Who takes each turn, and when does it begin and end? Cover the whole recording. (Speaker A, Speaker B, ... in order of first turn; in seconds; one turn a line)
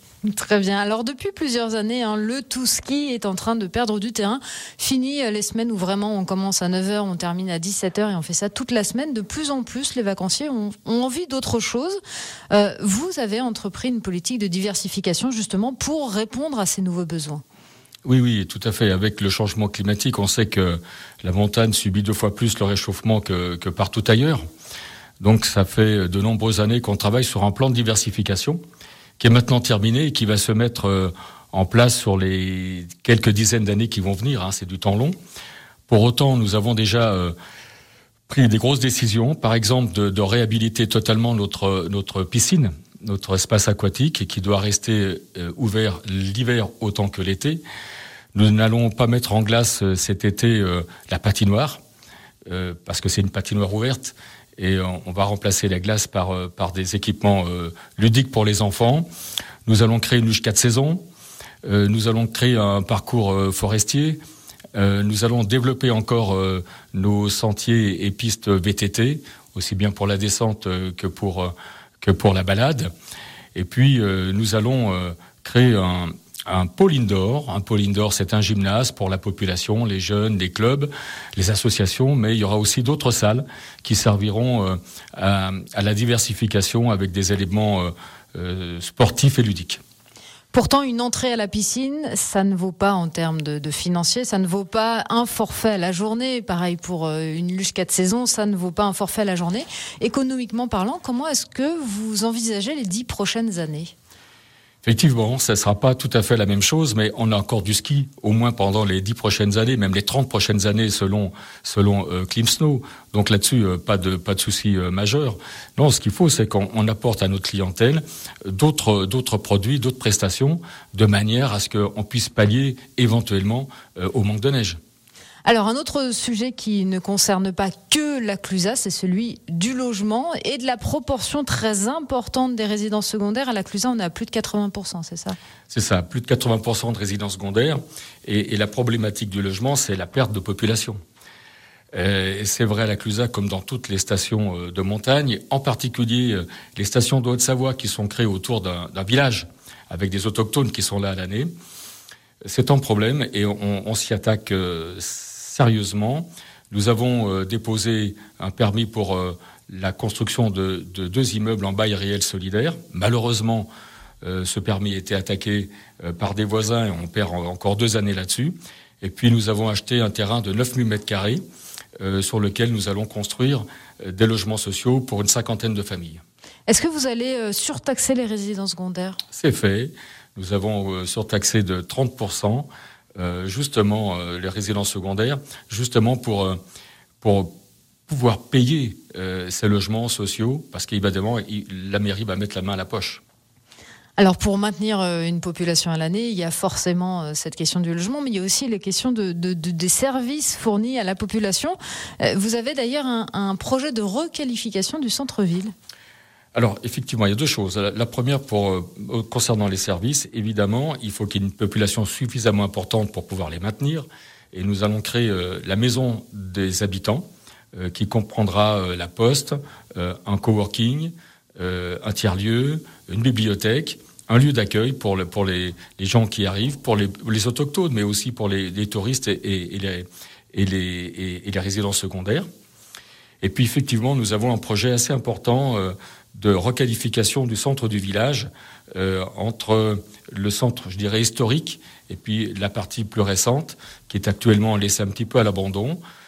Speaker A: 0.2-12.0
Speaker A: 12.5-17.4
Speaker B: 18.0-24.4
Speaker B: 25.2-28.6
Speaker B: 29.2-35.1
Speaker B: 35.9-37.3
Speaker B: 38.3-47.6
Speaker B: 48.3-51.8
Speaker B: 52.5-59.1
Speaker B: 59.6-61.0
Speaker B: 61.6-64.2
Speaker B: 64.7-72.9
Speaker B: 73.5-89.8
Speaker A: 90.5-103.9
Speaker B: 104.8-124.8
Speaker A: 125.4-135.3
Speaker B: 135.7-141.0
Speaker B: 141.9-151.5
Speaker B: 152.4-163.7
Speaker B: 164.2-171.4
Speaker B: 172.0-176.2
Speaker A: 176.7-179.2
Speaker B: 179.3-186.6
Speaker B: 187.2-187.5
Speaker B: 188.1-193.2
Speaker A: 194.2-205.7
Speaker B: 206.5-232.5
Speaker B: 233.4-246.0